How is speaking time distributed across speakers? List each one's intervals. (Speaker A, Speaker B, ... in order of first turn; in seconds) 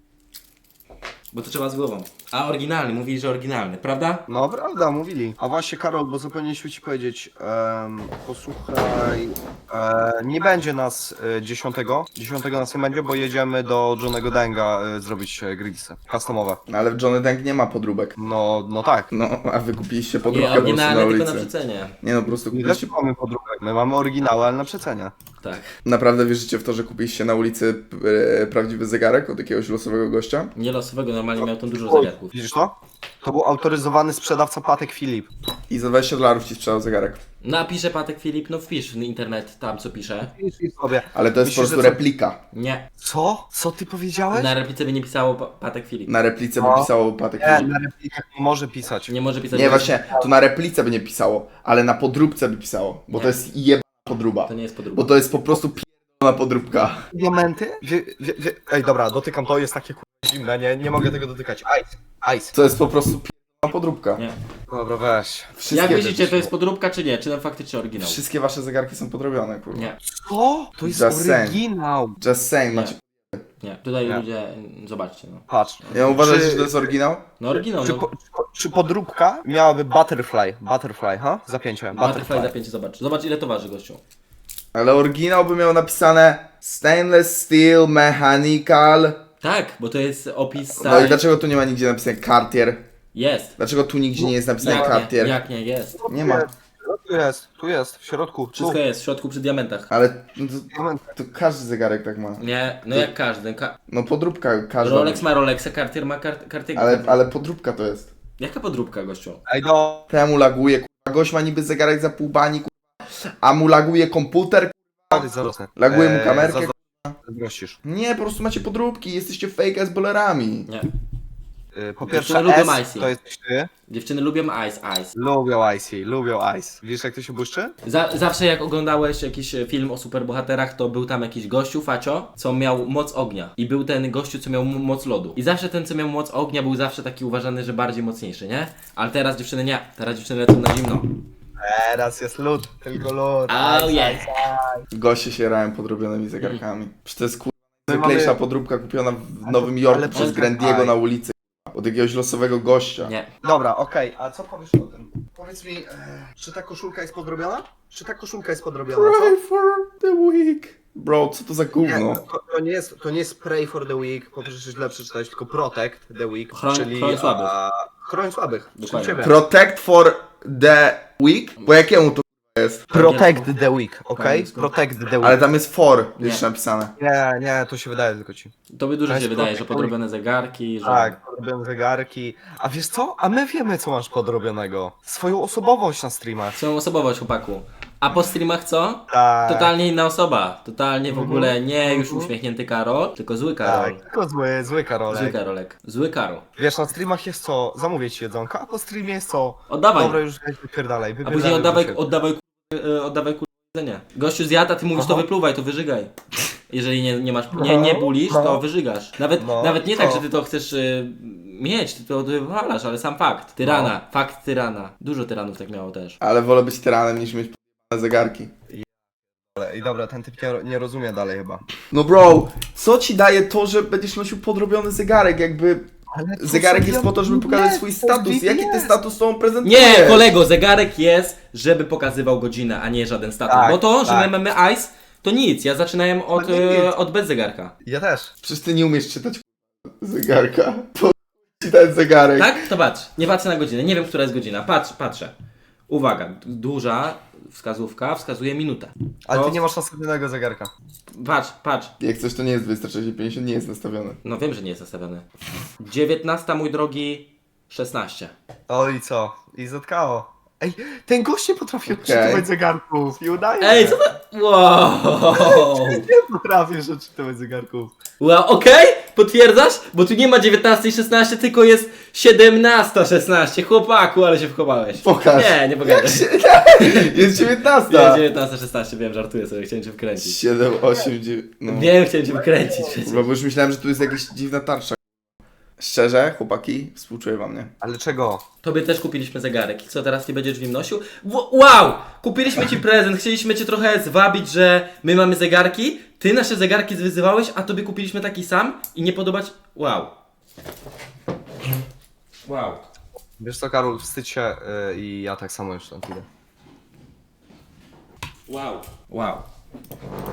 Speaker A: 1.3-4.2, 20.2-21.9, 25.4-25.7, 30.6-32.3, 37.4-40.3, 42.5-42.9, 44.3-46.1, 49.1-50.0, 54.4-55.3, 65.7-68.2, 69.7-70.0, 72.7-72.9, 73.6-76.2, 77.4-78.0, 81.9-84.0, 89.4-91.3, 93.1-93.5, 94.6-96.0, 98.5-99.9, 102.4-103.8, 104.8-107.2, 108.4-109.4, 122.0-123.1, 123.9-125.1, 127.8-141.1, 143.5-144.3, 150.1-150.4, 153.0-153.3, 166.5-167.5, 168.8-169.3, 172.9-173.5, 174.2-174.7, 178.7-181.2, 186.5-194.0, 195.1-196.4, 199.7-200.2, 201.2-206.1, 206.7-216.2, 229.6-237.7, 242.3-245.3, 245.9-249.6, 251.1-251.9, 254.2-255.2, 255.8-258.3, 263.6-266.1, 268.2-280.4, 281.6-283.2, 288.6-300.1, 302.4-302.8, 308.5-309.5
Speaker B: 4.3-16.6, 18.2-19.1, 22.5-25.1, 31.9-35.3, 40.2-42.0, 43.0-44.5, 46.6-49.1, 57.1-62.5, 64.7-65.9, 70.0-72.2, 75.5-76.9, 77.5-82.5, 94.2-95.0, 96.0-98.8, 100.7-101.1, 109.5-110.1, 115.1-116.7, 117.2-117.8, 121.7-123.7, 125.2-127.7, 141.6-144.8, 147.9-148.4, 149.4-151.0, 153.4-159.4, 161.8-169.4, 172.9-175.4, 177.0-178.5, 179.1-179.9, 180.8-186.6, 189.1-189.7, 191.1-192.3, 193.6-195.4, 196.6-202.0, 204.9-205.2, 207.5-208.6, 209.4-210.2, 213.6-213.9, 219.5-221.7, 226.1-229.0, 233.5-234.3, 236.3-236.9, 237.8-238.3, 249.3-250.7, 258.7-264.0, 265.3-267.9, 287.8-288.4, 303.4-306.2
Speaker C: 16.7-18.1, 19.1-21.5, 22.0-22.9, 25.8-30.5, 35.7-37.2, 41.1-42.4, 46.1-47.7, 49.5-57.0, 62.5-64.2, 65.6-66.5, 68.0-69.9, 70.8-71.6, 72.2-73.4, 75.9-77.2, 84.7-89.2, 90.8-92.8, 93.6-95.4, 96.1-96.5, 99.9-103.1, 103.9-105.3, 106.7-108.1, 110.1-112.7, 113.4-117.1, 117.8-120.7, 144.9-153.1, 158.9-162.2, 169.2-172.8, 175.2-176.9, 216.2-218.5, 221.9-230.3, 238.4-242.6, 252.0-254.2, 261.9-262.4, 275.0-278.2, 280.2-281.9, 283.0-285.0, 285.8-287.7